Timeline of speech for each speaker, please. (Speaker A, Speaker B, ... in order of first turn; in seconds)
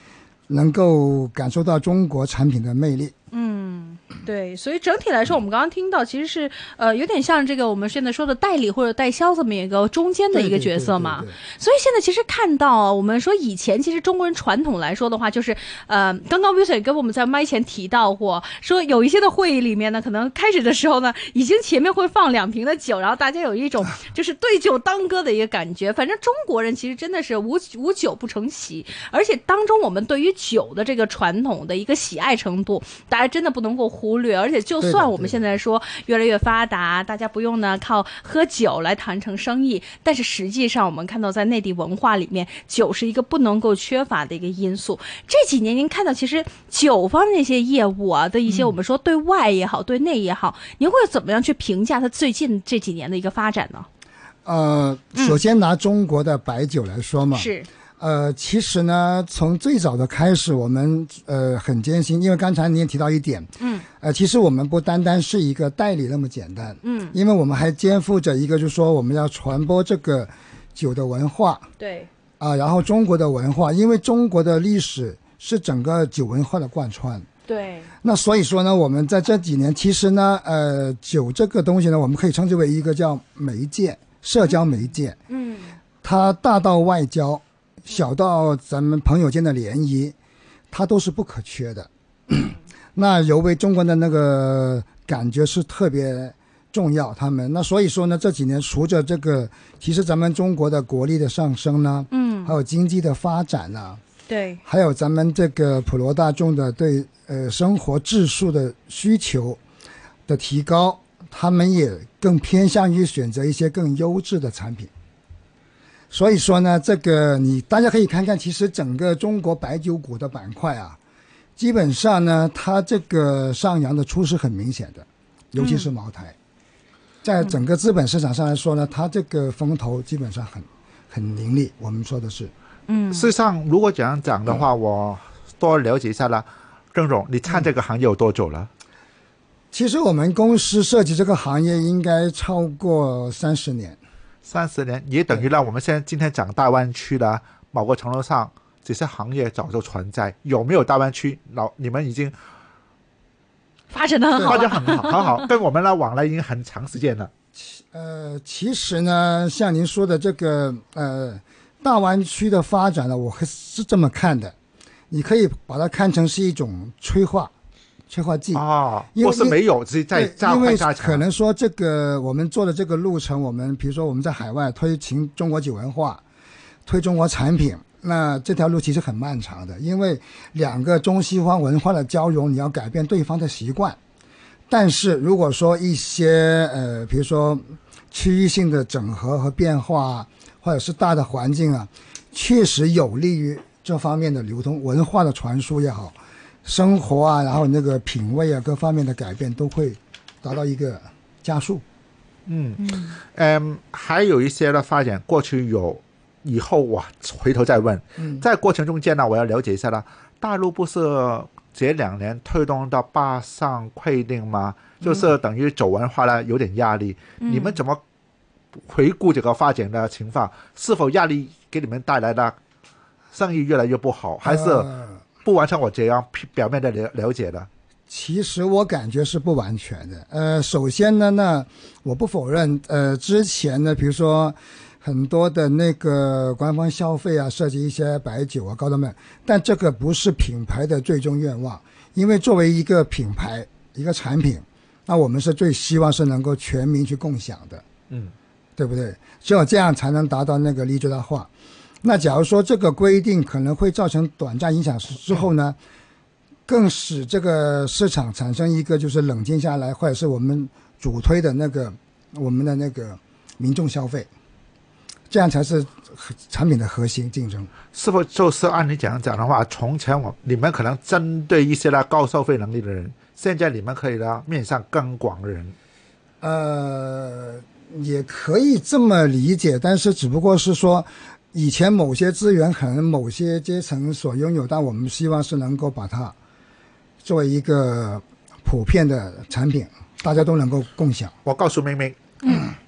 Speaker A: 0.5-3.1, 10.3-11.4, 34.8-35.4, 54.4-71.7, 72.4-77.3, 78.0-85.2, 86.0-90.1, 90.7-104.0, 104.6-109.6, 110.3-114.9, 116.1-121.0, 121.6-126.3, 127.2-132.5, 139.7-144.0, 154.4-154.6, 157.6-164.5, 165.1-167.5, 168.1-169.6, 170.1-176.2, 176.8-184.0, 184.7-201.8, 208.2-208.4, 224.4-225.2, 228.1-247.8, 248.8-251.5, 252.0-255.8, 256.7-264.3, 265.3-267.7, 276.4-286.3, 287.2-291.3
Speaker B: 3.3-53.9, 57.3-57.7, 63.6-63.8, 66.8-67.2, 71.8-72.1, 77.5-77.9, 85.3-85.8, 102.1-102.5, 104.3-104.6, 125.6-125.9, 132.9-133.3, 153.9-155.5, 202.8-203.2, 217.4-217.7
Speaker C: 133.1-138.7, 144.4-152.3, 154.4-157.3, 168.5-171.2, 202.5-218.0, 218.9-222.6, 223.3-224.9, 225.4-227.7, 267.9-275.7, 291.4-292.2